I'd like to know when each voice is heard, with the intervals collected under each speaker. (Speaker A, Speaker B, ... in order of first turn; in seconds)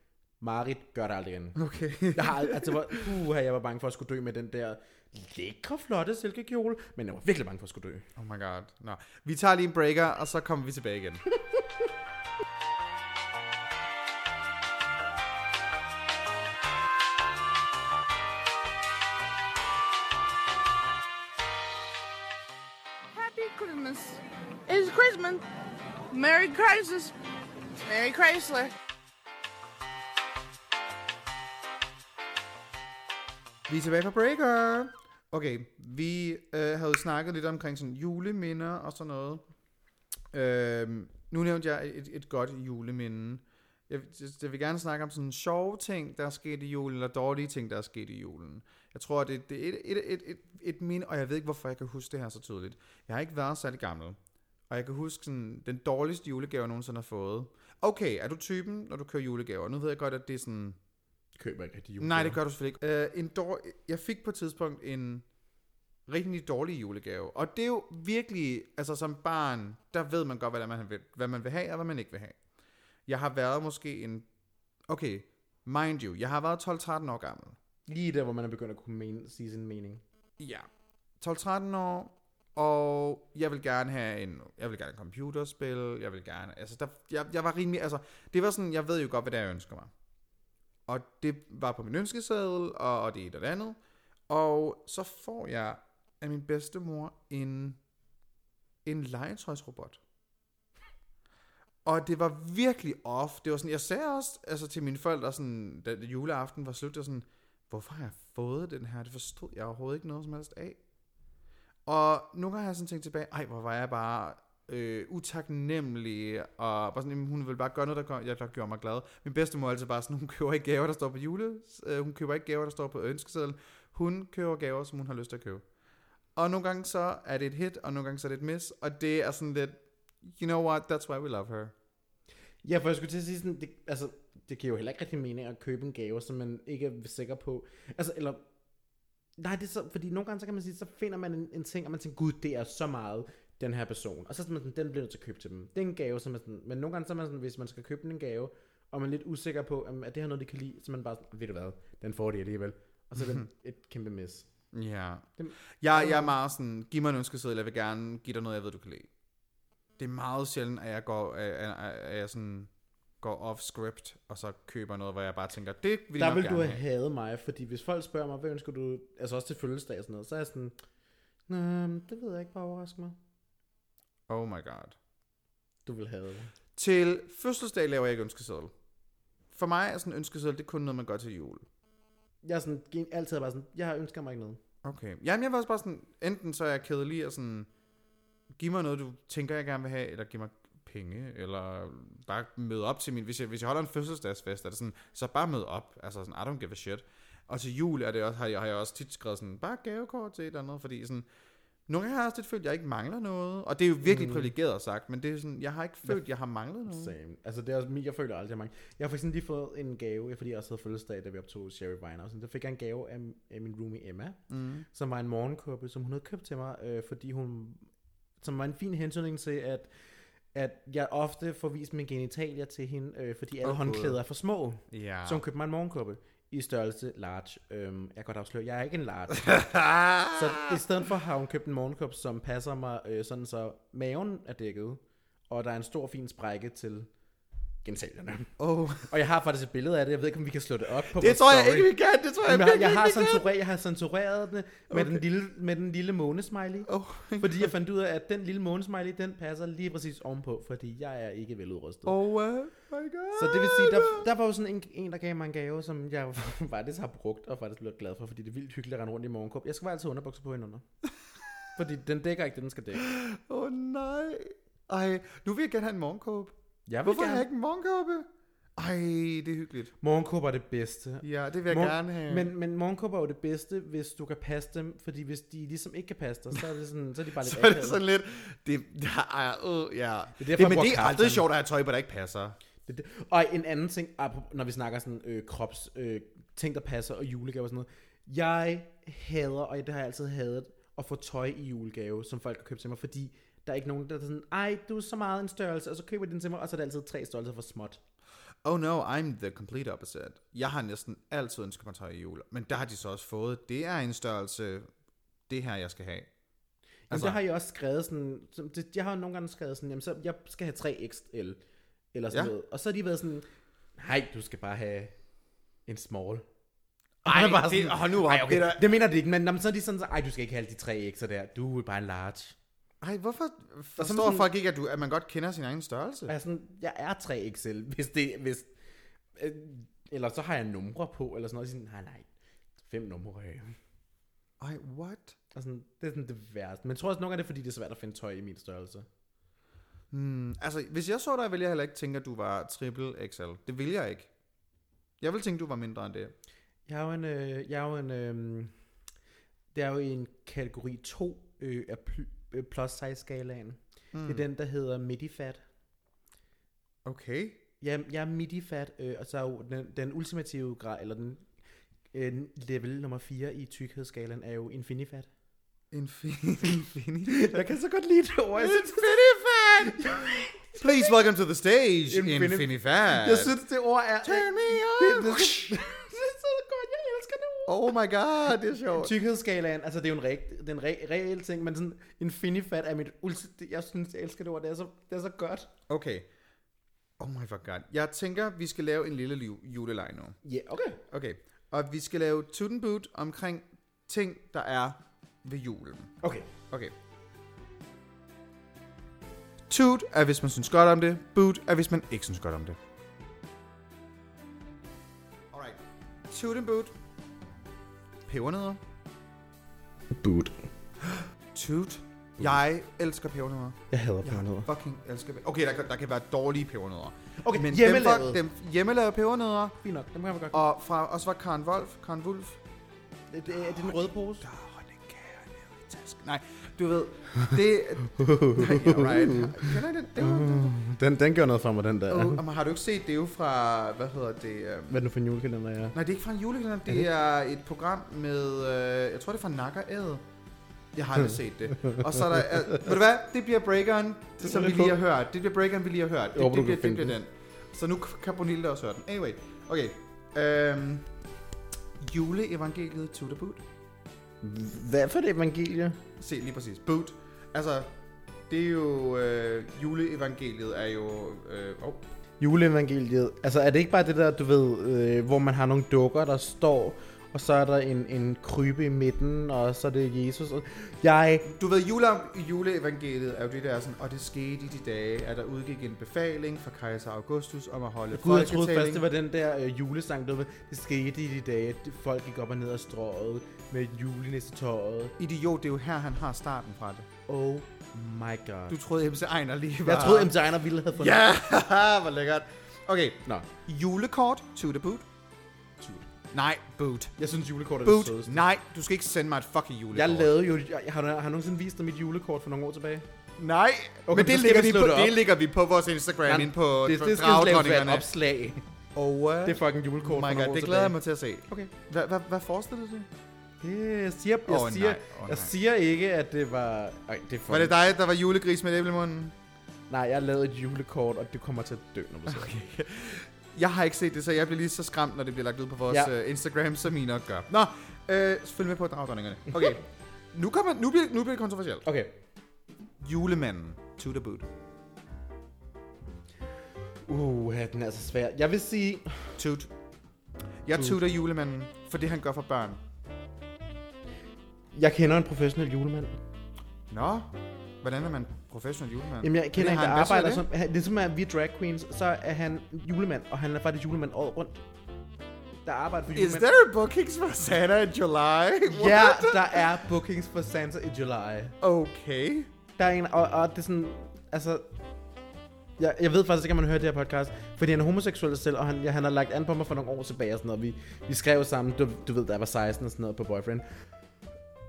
Speaker A: 0.4-1.6, 2.1-8.1, 61.4-62.4, 77.9-80.0, 132.6-138.4, 139.4-154.5, 155.4-156.3, 166.2-170.8, 171.5-173.2, 175.8-176.5, 182.4-184.6, 204.0-204.5, 206.8-214.4, 214.9-217.9, 218.4-219.9, 220.5-229.6, 230.3-237.1, 237.8-238.5, 239.1-252.2, 253.3-260.8, 261.7-263.0, 266.9-267.5, 270.0-278.0, 280.4-281.5, 282.9-298.0, 307.1-311.6, 312.1-315.1, 315.9-316.4, 317.2-322.6, 324.0-324.5, 326.3-328.7, 329.4-332.3, 332.8-333.8, 335.5-339.1, 346.9-348.7, 349.7-355.6, 357.8-361.5, 362.1-365.3, 367.2-369.3, 369.8-371.1, 372.1-378.0, 378.9-385.7, 390.4-391.0, 396.2-396.5, 410.1-410.6, 413.9-414.7, 417.4-418.4, 419.8-420.6, 423.3-424.5, 427.4-432.4, 434.9-435.9, 444.4-445.0, 446.3-447.1, 454.4-456.0, 462.4-471.5, 478.1-485.1, 487.3-488.8, 489.8-491.2, 495.8-496.1, 497.2-498.4, 499.9-503.1, 504.1-505.3, 506.2-508.6, 509.4-510.9, 513.6-517.7, 519.9-522.5, 529.5-529.8, 531.8-532.1, 537.1-539.3, 540.7-541.0, 544.7-546.1, 549.2-554.6, 555.6-556.5, 558.6-561.5, 562.8-564.7, 565.8-573.6
Speaker B: 1.6-3.0, 8.2-11.2, 33.7-39.4, 40.3-54.2, 54.7-60.8, 62.0-65.2, 66.1-72.4, 73.1-74.2, 74.9-77.6, 80.4-80.7, 81.2-89.9, 90.9-97.8, 98.8-100.0, 101.8-110.8, 111.8-125.6, 126.3-131.7, 153.2-153.4, 154.7-155.3, 155.8-159.1, 160.0-162.7, 163.2-166.8, 174.3-175.0, 176.8-178.7, 179.5-181.7, 184.8-187.7, 188.6-201.2, 201.9-207.1, 214.5-214.8, 223.6-224.2, 224.9-225.4, 229.4-230.8, 238.6-239.1, 241.1-243.5, 244.9-245.2, 246.9-247.7, 252.1-254.2, 262.9-269.9, 271.2-272.5, 277.4-282.6, 298.6-304.9, 305.5-306.3, 307.1-307.4, 317.2-318.8, 323.0-326.3, 334.6-335.4, 340.1-344.3, 345.2-346.3, 354.1-354.4, 357.0-357.6, 365.9-367.7, 368.6-370.2, 370.7-373.6, 374.2-375.8, 377.7-379.1, 385.9-386.3, 387.2-390.4, 391.1-396.1, 399.7-402.8, 405.5-406.9, 408.3-408.8, 411.5-419.8, 420.5-422.6, 423.5-430.7, 432.1-435.0, 435.9-440.2, 440.9-451.1, 452.0-453.6, 456.2-457.9, 458.5-462.1, 471.4-479.0, 485.2-487.1, 488.7-490.3, 490.9-495.1, 496.3-497.1, 497.8-500.3, 503.4-508.1, 508.9-513.1, 514.5-515.5, 517.5-519.3, 522.3-529.8, 530.3-531.9, 533.0-534.5, 539.4-539.7, 540.6-542.8, 546.9-547.3, 547.8-550.4, 556.1-559.6, 561.6-562.5
Speaker C: 23.1-25.4, 26.1-27.1, 27.8-28.7